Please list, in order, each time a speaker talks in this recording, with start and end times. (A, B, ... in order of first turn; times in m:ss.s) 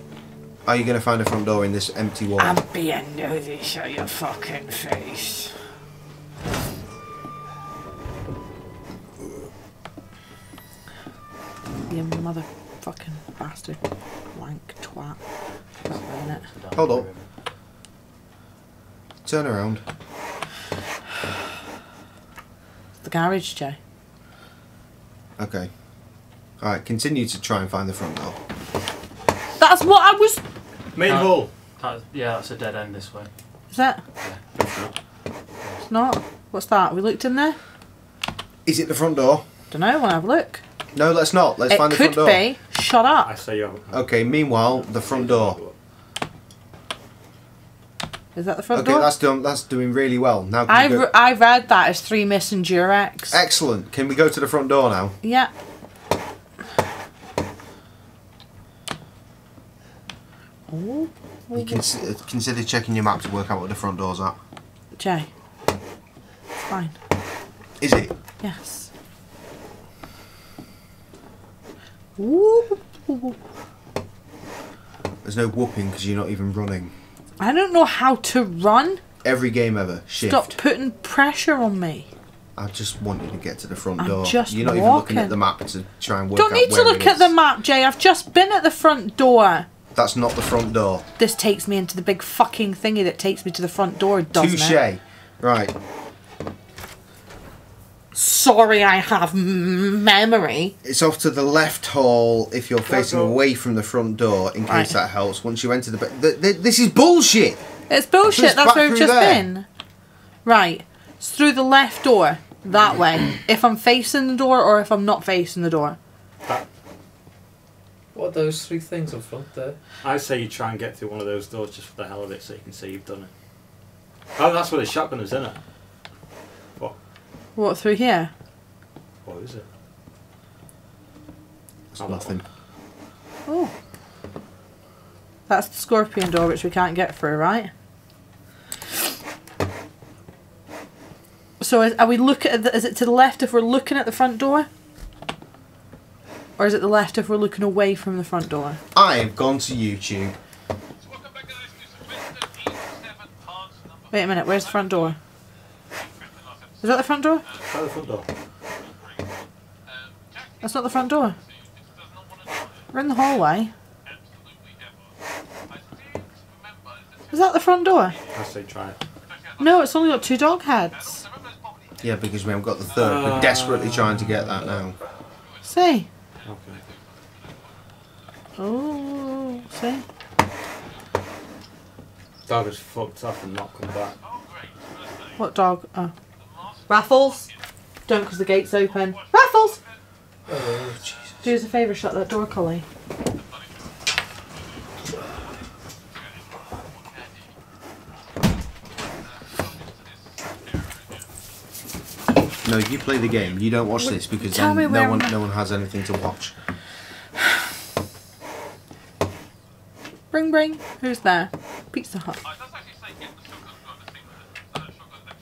0:00.6-0:02.6 A
0:02.4-0:05.5 B
0:11.9-0:13.8 B
0:14.3-0:15.2 B
0:15.8-0:16.4 B
0:15.8-0:17.2 C
0:16.7-0:17.1 A
0:19.2-0:19.8 A
0:23.0-0:23.8 B
0:25.4-0:25.7 A
0:26.6-0:28.4 A
0:29.6-0:30.4 B
0:31.0-0:31.5 D
0:31.1-0:33.3 C
0:33.7-0:34.0 B
0:34.6-0:34.9 D
0:35.9-0:37.6 B
0:38.6-0:39.4 A
0:39.7-0:40.6 B
0:40.9-0:42.4 A
0:41.7-0:43.3 B
0:43.2-0:45.7 D
0:43.9-0:45.6 A
0:48.4-0:49.1 B
0:48.7-0:51.1 A
0:50.7-0:53.4 B
0:53.3-0:55.2 A
0:55.2-0:55.5 B
1:00.7-1:02.0 B
1:01.5-1:04.4 A
1:05.0-1:05.3 B
1:06.6-1:07.0 B
1:07.8-1:08.1 A
1:08.4-1:08.9 B
1:12.2-1:13.4 B
1:15.2-1:16.9 A
1:17.4-1:19.0 B
1:19.2-1:20.6 A
1:20.2-1:22.1 B
1:22.6-1:27.3 A
1:24.0-1:25.4 B
1:26.4-1:29.7 B
1:29.9-1:31.0 A
1:31.2-1:34.8 B
1:34.4-1:35.7 A
1:38.1-1:40.8 B
1:40.8-1:47.6 A
1:42.9-1:43.4 D
1:44.7-1:44.9 B
1:47.9-1:49.7 B
1:48.3-1:49.5 A
1:50.4-1:56.0 B
1:58.1-1:59.8 E
2:00.0-2:03.3 D
2:04.4-2:05.6 D
2:07.6-2:08.3 B
2:09.2-2:09.7 D
2:11.9-2:12.4 A
2:12.0-2:12.4 D
2:13.5-2:13.7 B
2:15.5-2:17.7 B
2:21.6-2:24.7 B
2:26.6-2:28.8 B
2:28.9-2:30.4 A
2:34.1-2:35.2 B
2:36.8-2:37.4 B
2:37.6-2:38.3 D
2:40.6-2:41.4 B
2:42.9-2:43.7 B
2:47.3-2:48.2 B
2:48.3-2:49.0 D
2:49.6-2:51.3 B
2:52.0-2:55.0 A
2:53.0-2:54.8 D
2:55.6-2:56.1 B
2:56.4-2:56.8 D
2:58.6-3:00.0 B
3:02.5-3:04.2 D
3:05.4-3:06.1 B
3:06.9-3:07.5 B
3:08.1-3:09.8 B
3:10.5-3:11.3 E
3:11.4-3:12.8 B
3:22.6-3:26.5 A
3:24.0-3:25.3 B
3:30.3-3:32.4 B